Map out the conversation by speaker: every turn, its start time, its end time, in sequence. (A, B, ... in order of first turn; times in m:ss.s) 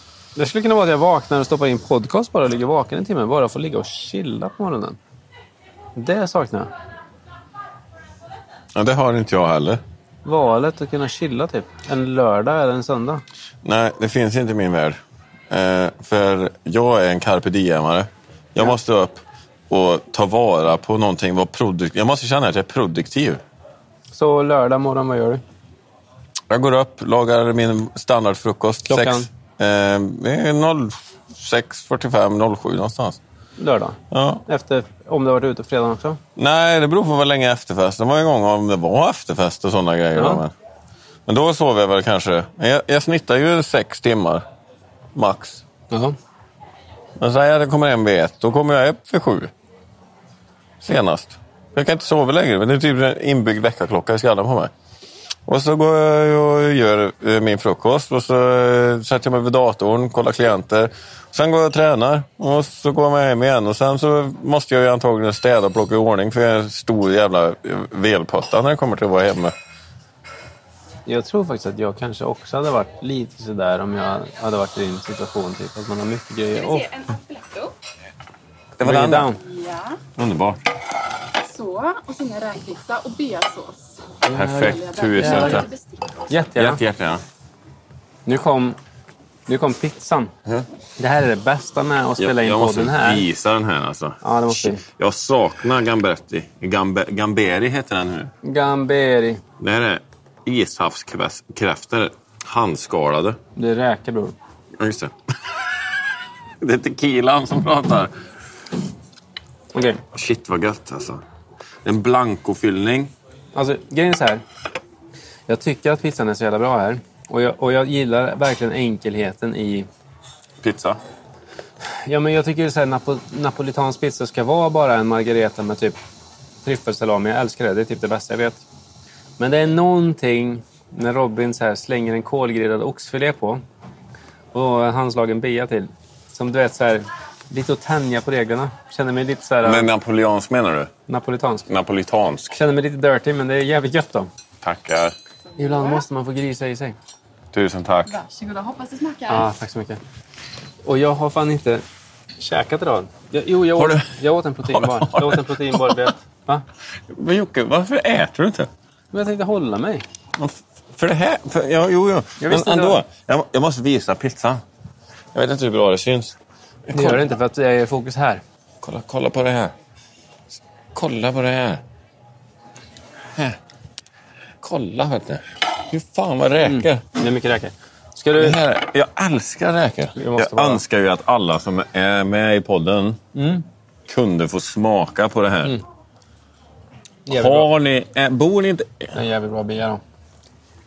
0:00.4-0:05.0 A
0:06.0-0:06.7 A
0:08.7-0:09.8 B
0:10.2-0:13.2 A
0:13.6-0:23.4 B
0:24.1-0:25.4 A
0:26.5-0:33.2 B
0:28.9-0:29.3 A
0:33.6-0:36.2 A
0:34.1-0:34.4 B
0:36.4-0:40.5 B
0:40.1-0:40.4 A
0:41.3-0:44.4 B
0:45.1-0:45.6 B
0:45.9-0:46.2 A
0:47.2-0:49.5 B
0:50.8-0:54.7 B
0:55.5-1:09.5 B
1:11.0-1:16.9 A
1:16.5-1:17.7 C
1:18.8-1:19.3 B
1:18.8-1:19.4 A
1:19.4-1:20.0 C
1:20.2-1:20.6 B
1:21.4-1:26.2 C
1:24.3-1:25.6 A
1:24.3-1:25.7 B
1:26.3-1:26.8 A
1:26.6-1:27.2 B
1:28.2-1:28.8 A
1:29.5-1:30.3 A
1:31.0-1:33.2 A
1:32.2-1:38.3 B
1:34.2-1:34.8 A
1:38.4-1:39.4 A
1:39.6-1:43.4 B
1:43.6-1:44.4 A
1:44.8-1:45.1 B
1:46.6-1:48.1 B
1:49.7-1:50.0 A
1:50.1-1:51.2 B
1:51.8-1:53.1 B
1:53.5-1:54.4 A
1:55.5-1:59.9 A
2:00.6-2:01.0 B
2:02.0-2:06.0 A
2:06.6-2:08.6 A
2:09.4-2:13.6 A
2:14.5-2:19.9 A
2:19.6-2:20.9 B
2:21.1-2:21.7 A
2:21.7-2:22.5 B
2:22.5-2:24.3 A
2:24.6-2:25.1 B
2:25.6-2:27.0 A
2:27.5-2:28.1 B
2:28.1-2:29.5 C
2:29.3-2:30.0 A
2:30.8-2:31.8 A
2:32.4-2:36.6 A
2:33.8-2:34.1 B
2:34.7-2:36.1 B
2:37.1-2:38.7 B
2:39.1-2:40.0 A
2:40.4-2:44.6 B
2:42.4-2:43.0 A
2:45.3-2:46.4 B
2:46.9-2:47.3 B
2:46.9-2:48.4 A
2:48.8-2:49.7 B
2:50.9-2:51.8 B
2:54.6-2:57.0 B
2:56.6-2:58.6 A
2:58.4-3:03.2 B
3:00.2-3:00.8 A
3:03.3-3:03.6 A
3:04.1-3:05.8 B
3:07.2-3:07.7 A
3:07.3-3:09.1 B
3:09.1-3:10.0 A